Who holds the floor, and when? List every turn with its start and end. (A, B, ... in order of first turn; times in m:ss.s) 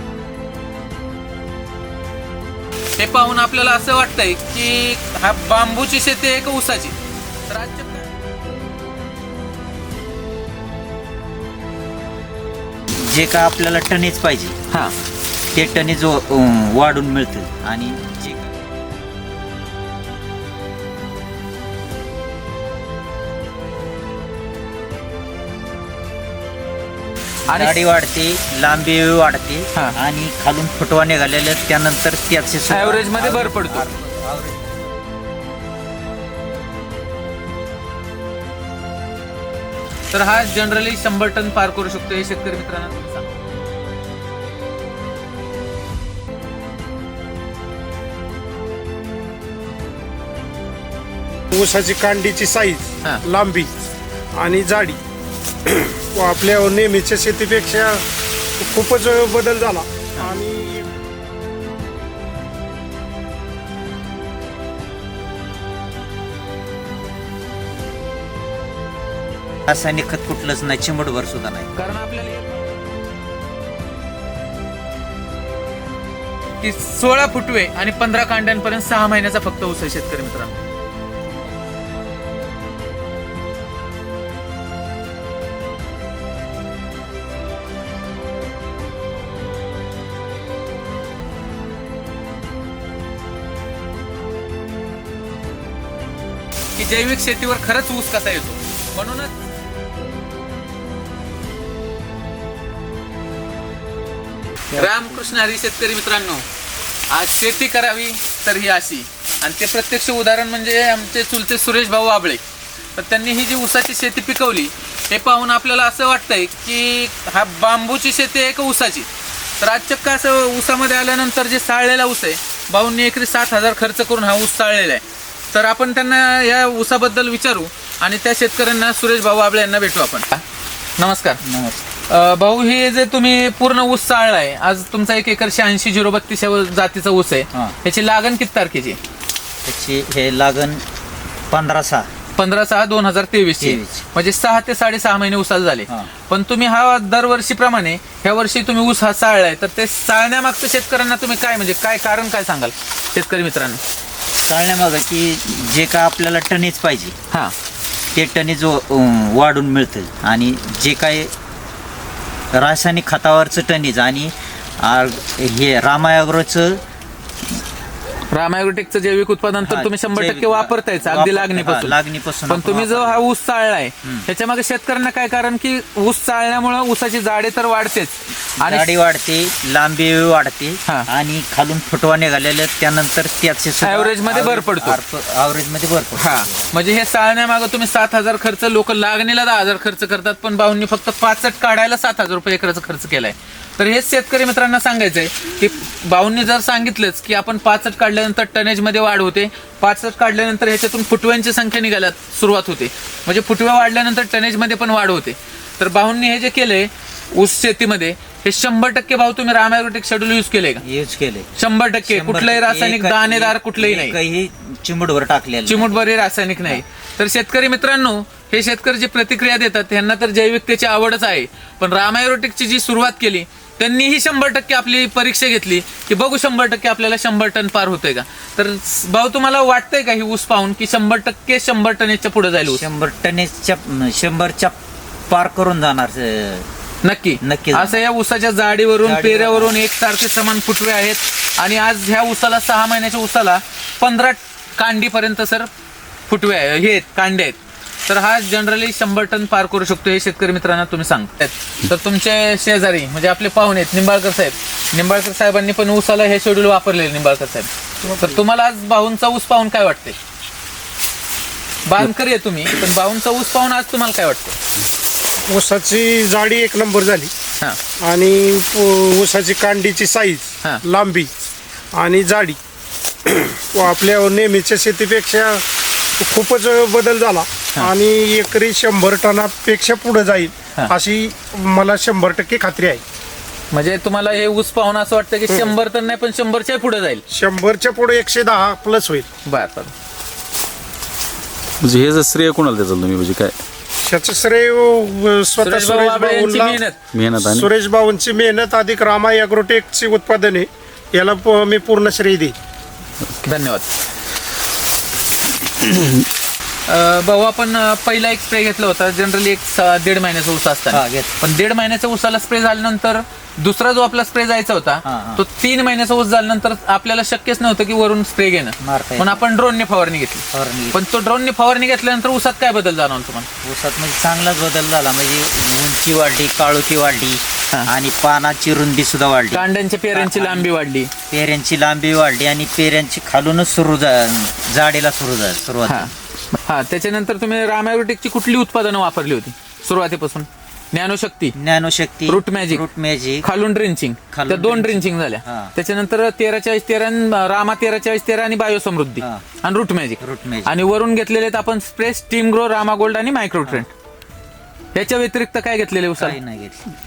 0:03.0-0:07.0 A
0:07.5-0:08.1 A
0:13.0-0:14.6 B
0:15.5-0:18.5 B
0:27.5-0:27.8 A
0:27.5-0:34.9 B
0:32.7-0:33.9 A
0:40.1-0:43.3 A
0:51.5-0:53.7 C
0:54.4-0:55.0 C
0:55.7-0:58.0 C
0:58.6-1:00.9 C
1:09.7-1:11.8 B
1:11.8-1:12.6 A
1:16.6-1:20.5 A
1:36.8-1:39.3 A
1:44.7-1:46.4 A
1:47.1-1:52.4 A
1:53.0-1:59.1 A
1:59.6-2:10.4 A
2:11.0-2:11.4 A
2:11.4-2:11.8 B
2:12.1-2:19.0 A
2:19.6-2:20.8 B
2:21.5-2:22.1 B
2:22.4-2:33.8 A
2:23.6-2:24.0 B
2:34.4-2:37.1 B
2:38.1-2:41.3 B
2:42.5-2:46.8 B
2:48.3-2:58.9 A
2:49.6-2:53.2 B
2:54.0-2:54.3 B
2:58.6-3:06.7 B
3:03.8-3:05.0 A
3:06.2-3:30.8 A
3:30.8-3:31.5 B
3:31.6-3:34.2 A
3:32.1-3:36.8 B
3:35.7-3:52.8 A
3:52.7-3:54.8 B
3:55.3-3:56.7 B
3:57.0-4:05.7 A
3:57.4-3:58.0 B
3:59.0-3:59.8 B
4:06.3-4:20.2 A
4:21.8-4:24.6 A
4:25.5-4:27.3 C
4:28.0-4:31.3 C
4:31.9-4:32.6 C
4:33.2-4:35.6 C
4:36.2-4:43.0 C
4:43.7-4:47.2 A
4:47.3-4:49.2 C
4:49.4-4:49.9 A
4:51.8-4:53.6 D
4:54.0-4:56.8 C
4:55.6-4:57.0 A
4:57.1-4:57.7 D
4:57.4-5:02.5 C
5:03.4-5:03.9 A
5:06.9-5:23.5 A
5:10.9-5:11.3 B
5:15.0-5:15.4 B
5:18.8-5:19.4 B
5:20.5-5:21.0 B
5:23.6-5:30.7 B
5:29.5-5:31.1 A
5:31.3-5:36.1 B
5:35.9-5:41.6 A
5:41.6-5:43.4 B
5:42.3-5:42.8 A
5:43.4-5:53.9 A
5:44.3-5:45.7 B
5:49.2-5:49.4 B
5:50.2-5:50.8 B
5:54.9-5:56.4 A
5:56.2-5:56.8 B